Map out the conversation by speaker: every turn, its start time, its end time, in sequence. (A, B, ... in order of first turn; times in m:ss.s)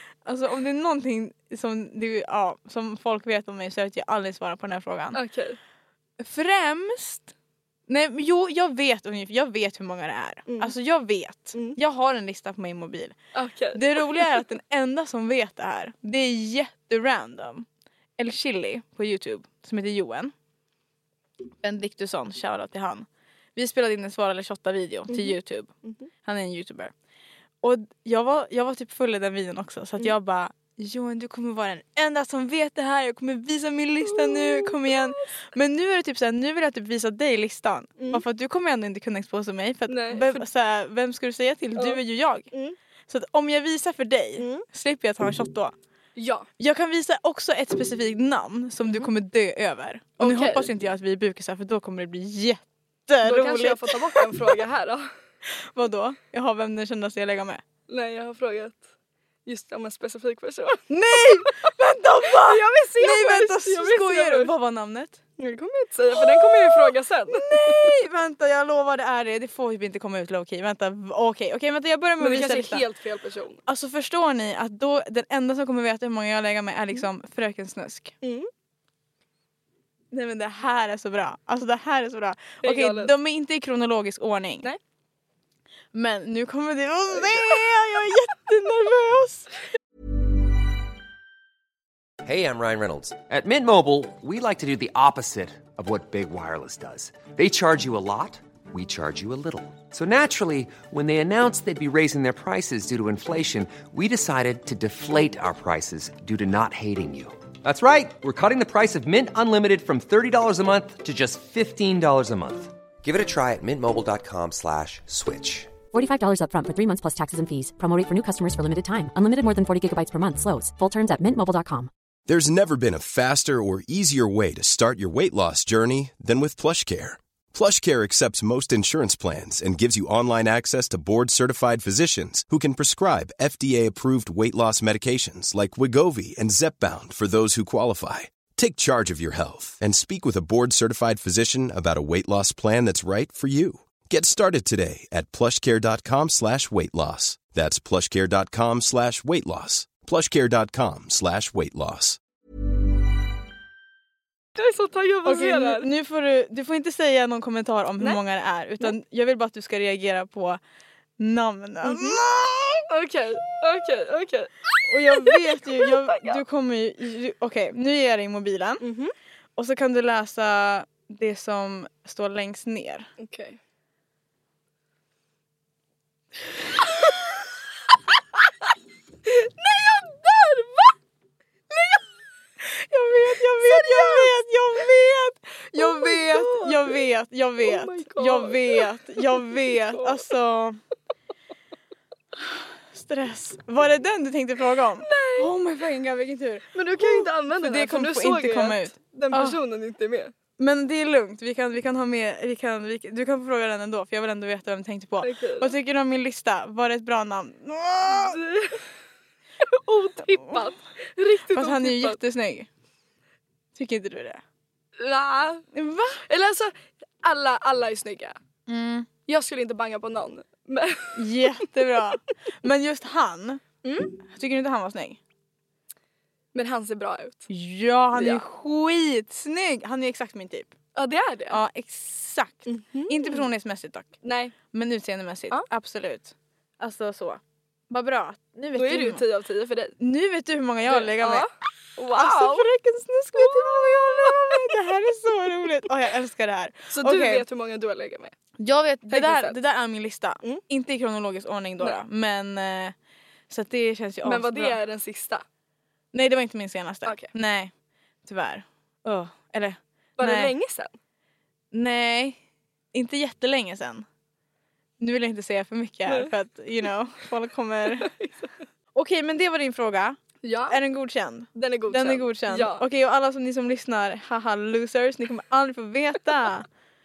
0:00.2-0:05.2 A
0:05.1-0:05.6 B
0:06.2-0:07.3 A
0:07.9-0:13.2 A
0:10.5-0:10.7 B
0:13.3-0:14.4 B
0:13.7-0:17.6 A
0:18.2-0:20.3 A
0:21.6-0:25.7 A
0:25.1-0:26.1 B
0:26.2-0:26.9 A
0:27.6-0:42.5 A
0:34.1-0:35.2 B
0:38.0-0:38.2 B
0:39.9-0:40.4 B
0:42.5-0:42.8 B
0:43.1-0:45.7 A
0:44.4-0:44.6 B
0:46.2-0:46.5 B
0:46.6-0:54.5 A
0:48.8-0:49.1 B
0:50.2-0:50.7 B
0:53.2-0:55.1 B
0:55.6-0:57.6 A
0:57.9-0:58.8 B
0:59.4-1:01.7 B
1:00.9-1:05.2 A
1:02.3-1:04.5 B
1:05.4-1:08.0 B
1:06.1-1:12.8 A
1:12.2-1:13.6 B
1:13.7-1:18.2 A
1:18.2-1:18.5 B
1:20.1-1:24.7 A
1:22.6-1:23.1 B
1:25.9-1:29.5 A
1:32.2-1:55.8 C
1:55.9-2:01.9 D
2:02.3-2:32.2 E
2:34.6-2:35.9 B
2:35.2-2:40.6 A
2:41.2-2:42.8 A
2:41.8-2:42.2 B
2:42.9-2:46.4 B
2:44.8-2:48.8 A
2:48.8-2:49.1 B
2:49.6-2:53.1 A
2:53.2-2:53.6 B
2:59.2-3:00.9 B
3:01.7-3:02.0 B
3:02.6-3:10.8 A
3:03.6-3:04.3 B
3:05.8-3:07.0 B
3:07.6-3:10.2 B
3:12.3-3:19.6 A
3:15.0-3:15.5 B
3:16.7-3:20.3 B
3:20.6-3:28.4 A
3:25.2-3:25.8 B
3:28.1-3:28.8 B
3:29.6-3:32.2 B
3:31.5-3:32.7 A
3:33.7-3:34.4 A
3:35.0-3:35.7 B
3:35.7-3:36.2 A
3:36.2-3:38.4 B
3:38.7-3:39.1 A
3:39.3-3:41.4 B
3:41.1-3:43.6 A
3:43.8-3:44.2 B
3:44.2-3:45.2 A
3:46.5-3:47.5 B
3:47.5-3:50.7 A
3:48.1-3:48.4 B
3:50.9-3:51.6 B
3:51.5-3:54.1 A
3:52.6-3:53.5 B
3:54.2-3:54.6 B
3:54.7-3:59.2 A
3:58.7-4:00.0 B
4:00.0-4:01.4 A
4:00.9-4:02.7 B
4:02.1-4:07.4 A
4:03.3-4:04.8 B
4:06.9-4:08.3 B
4:08.6-4:12.9 A
4:09.1-4:09.6 B
4:13.5-4:14.8 A
4:14.2-4:15.4 B
4:16.1-4:17.7 A
4:17.0-4:17.3 B
4:18.2-4:20.5 A
4:20.2-4:20.9 B
4:21.7-4:22.4 A
4:22.9-4:24.0 A
4:25.0-4:28.1 A
4:27.9-4:28.5 B
4:28.9-4:36.7 A
4:30.4-4:30.8 B
4:31.6-4:32.8 B